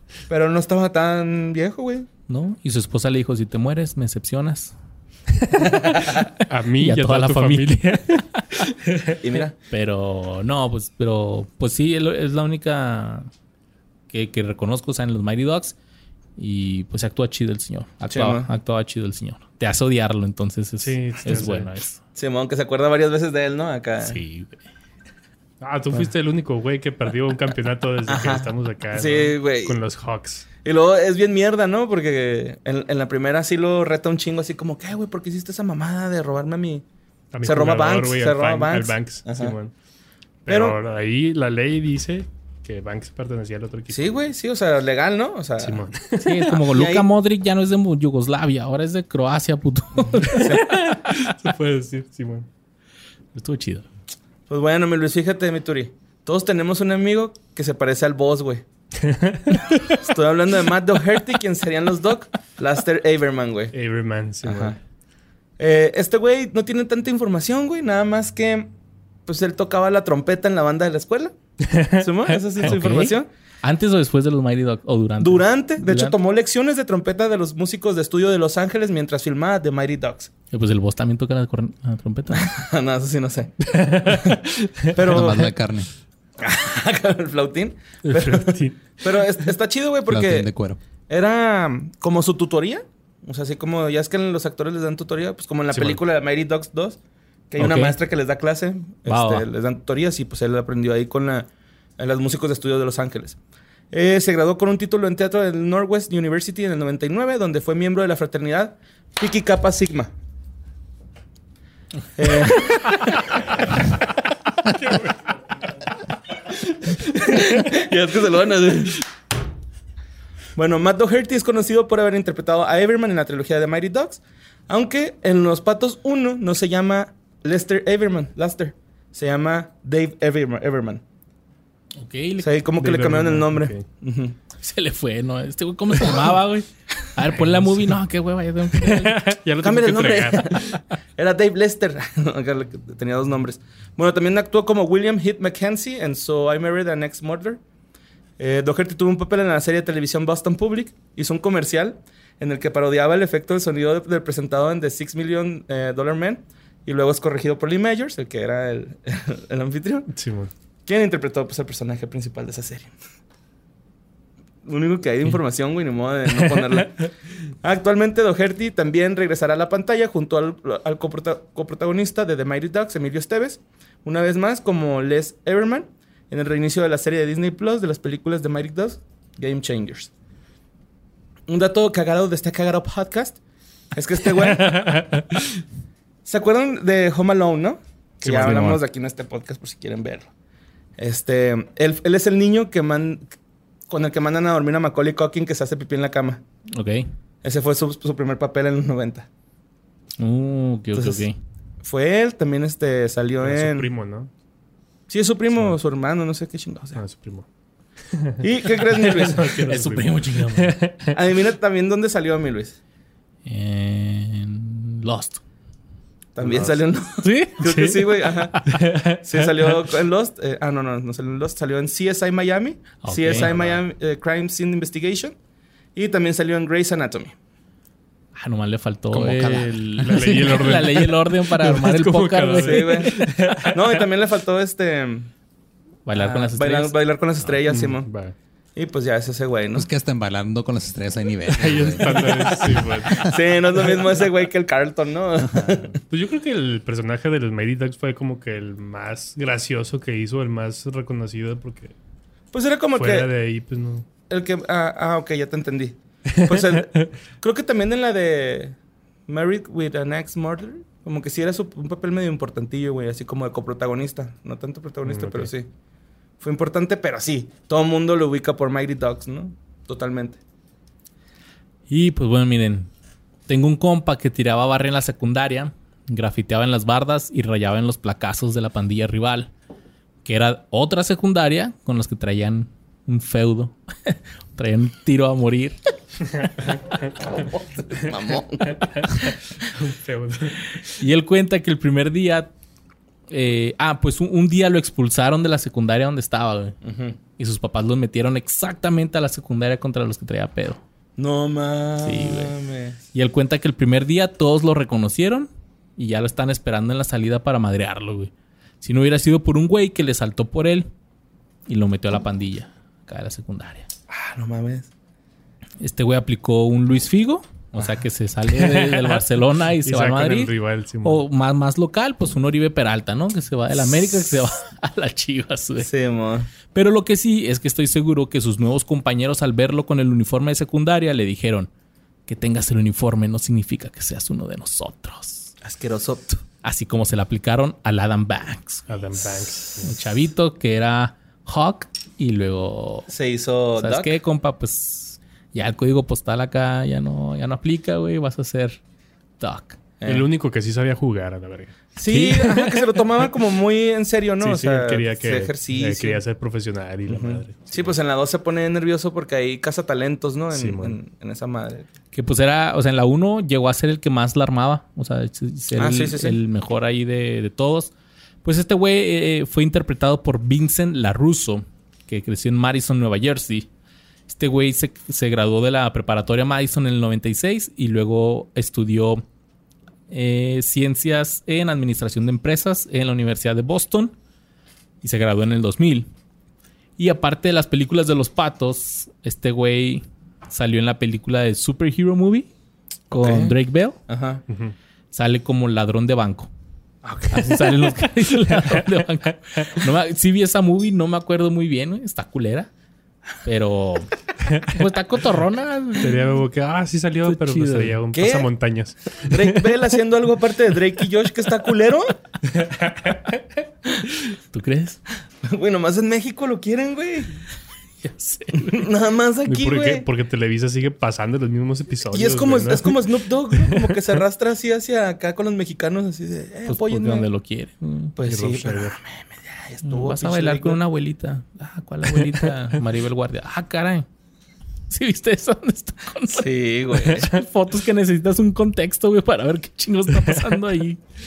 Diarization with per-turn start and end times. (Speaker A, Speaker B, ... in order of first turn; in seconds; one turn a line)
Speaker A: 0.3-2.1
Speaker B: 2.3-4.7
Speaker B: 5.6-8.7
Speaker C: 6.4-8.2
Speaker A: 9.2-9.5
Speaker B: 9.6-13.3
Speaker B: 14.1-15.7
Speaker B: 16.4-22.0
Speaker A: 18.1-18.5
Speaker C: 20.8-21.7
Speaker A: 22.1-24.2
Speaker B: 24.0-24.6
Speaker C: 25.6-30.4
Speaker A: 28.1-29.8
Speaker A: 30.6-36.8
Speaker C: 37.3-39.7
Speaker A: 37.4-39.5
Speaker C: 40.5-44.1
Speaker A: 40.5-40.8
Speaker A: 43.9-45.8
Speaker C: 45.6-46.6
Speaker B: 46.2-50.9
Speaker A: 46.6-47.1
Speaker A: 50.1-50.8
Speaker C: 50.3-52.5
Speaker B: 53.3-53.9
Speaker A: 54.5-58.6
Speaker C: 59.0-59.7
Speaker A: 59.9-63.7
Speaker C: 63.7-64.8
Speaker A: 64.4-64.8
Speaker A: 65.6-68.7
Speaker A: 69.3-71.3
Speaker C: 71.6-72.7
Speaker A: 72.0-73.3
Speaker B: 72.6-76.2
Speaker A: 75.2-80.3
Speaker B: 80.5-82.5
Speaker A: 82.3-84.4
Speaker C: 83.7-84.9
Speaker A: 84.9-85.5
Speaker D: 85.1-85.9
Speaker A: 86.4-90.5
Speaker C: 88.0-89.0
Speaker D: 90.1-90.8
Speaker A: 91.1-97.0
Speaker C: 95.7-96.0
Speaker A: 97.5-103.4
Speaker B: 97.6-98.0
Speaker B: 99.0-99.4
Speaker A: 103.9-110.1
Speaker A: 112.2-113.2
Speaker A: 116.8-119.0
Speaker A: 120.5-131.0
Speaker B: 132.0-132.5
Speaker A: 132.4-134.4
Speaker C: 132.8-133.8
Speaker B: 134.6-139.2
Speaker C: 137.4-137.9
Speaker C: 138.7-140.8
Speaker A: 139.6-147.6
Speaker A: 148.4-160.1
Speaker C: 160.1-160.5
Speaker A: 160.8-162.9
Speaker A: 164.6-180.1
Speaker A: 181.5-183.4
Speaker A: 183.9-185.0
Speaker C: 184.3-185.5
Speaker A: 186.2-190.3
Speaker C: 188.2-188.7
Speaker B: 188.2-188.8
Speaker A: 191.0-193.3
Speaker A: 193.9-196.4
Speaker B: 196.7-197.1
Speaker A: 197.4-199.3
Speaker B: 200.2-201.4
Speaker A: 200.9-201.2
Speaker A: 201.8-203.9
Speaker C: 203.4-204.3
Speaker A: 205.1-207.0
Speaker C: 205.5-205.8
Speaker C: 206.9-207.4
Speaker C: 208.1-211.1
Speaker A: 208.4-209.6
Speaker B: 209.0-210.8
Speaker A: 211.1-212.8
Speaker B: 213.4-215.4
Speaker A: 216.3-225.3
Speaker C: 216.4-216.8
Speaker B: 217.2-219.0
Speaker C: 217.7-218.0
Speaker B: 223.0-223.8
Speaker C: 223.3-223.7
Speaker A: 225.9-227.3
Speaker B: 228.3-233.3
Speaker D: 229.1-230.3
Speaker C: 230.0-234.0
Speaker A: 232.6-233.2
Speaker A: 233.7-235.3
Speaker B: 236.1-236.9
Speaker A: 236.1-238.1
Speaker C: 237.7-238.3
Speaker A: 238.8-239.9
Speaker D: 239.7-243.4
Speaker C: 241.5-243.3
Speaker A: 243.1-246.0
Speaker C: 246.1-251.9
Speaker A: 252.5-253.3
Speaker C: 252.9-254.1
Speaker A: 254.3-258.8
Speaker C: 256.5-256.8
Speaker A: 259.3-265.7
Speaker C: 265.0-265.5
Speaker A: 266.4-270.4
Speaker B: 271.9-272.9
Speaker B: 273.5-279.5
Speaker B: 280.2-285.8
Speaker A: 287.2-289.3
Speaker C: 289.0-290.8
Speaker B: 290.8-292.5
Speaker B: 293.3-296.8
Speaker A: 296.8-297.2
Speaker B: 297.4-300.8
Speaker A: 301.2-303.0
Speaker B: 302.0-302.5
Speaker B: 303.1-310.9
Speaker B: 311.7-313.9
Speaker A: 314.1-314.9
Speaker B: 315.8-320.5
Speaker C: 318.5-319.2
Speaker C: 319.8-321.2
Speaker B: 321.0-325.9
Speaker A: 325.8-326.5
Speaker B: 326.7-331.7
Speaker B: 332.3-335.5
Speaker A: 335.6-336.4
Speaker B: 336.6-338.9
Speaker C: 338.9-340.0
Speaker B: 339.8-343.1
Speaker A: 343.1-344.1
Speaker B: 343.8-348.8
Speaker B: 349.4-349.8
Speaker A: 350.0-350.3
Speaker C: 350.1-352.8
Speaker A: 352.0-356.2
Speaker B: 352.1-352.5
Speaker C: 354.4-357.9
Speaker A: 357.1-361.9
Speaker C: 360.5-361.0
Speaker B: 362.1-367.9
Speaker A: 365.7-366.4
Speaker B: 368.4-373.7
Speaker B: 374.3-379.2
Speaker B: 380.1-384.1
Speaker B: 385.0-386.1
Speaker B: 387.0-392.5
Speaker B: 393.1-394.0
Speaker A: 393.1-393.5
Speaker A: 394.1-394.4
Speaker C: 394.5-394.7
Speaker B: 395.1-396.5
Speaker A: 397.0-397.6
Speaker B: 397.3-402.7
Speaker C: 398.0-398.8
Speaker B: 403.4-406.2
Speaker C: 406.0-409.7
Speaker B: 407.2-407.9
Speaker A: 408.1-408.5
Speaker A: 409.1-412.2
Speaker C: 412.6-413.2
Speaker B: 414.5-415.0
Speaker A: 415.4-417.4
Speaker B: 418.0-418.9
Speaker A: 418.5-420.1
Speaker C: 419.4-423.1
Speaker A: 422.1-427.3
Speaker B: 426.7-428.2
Speaker A: 428.1-430.8
Speaker C: 428.2-429.0
Speaker B: 429.8-434.1
Speaker B: 434.9-436.5
Speaker A: 436.3-437.3
Speaker B: 437.0-441.0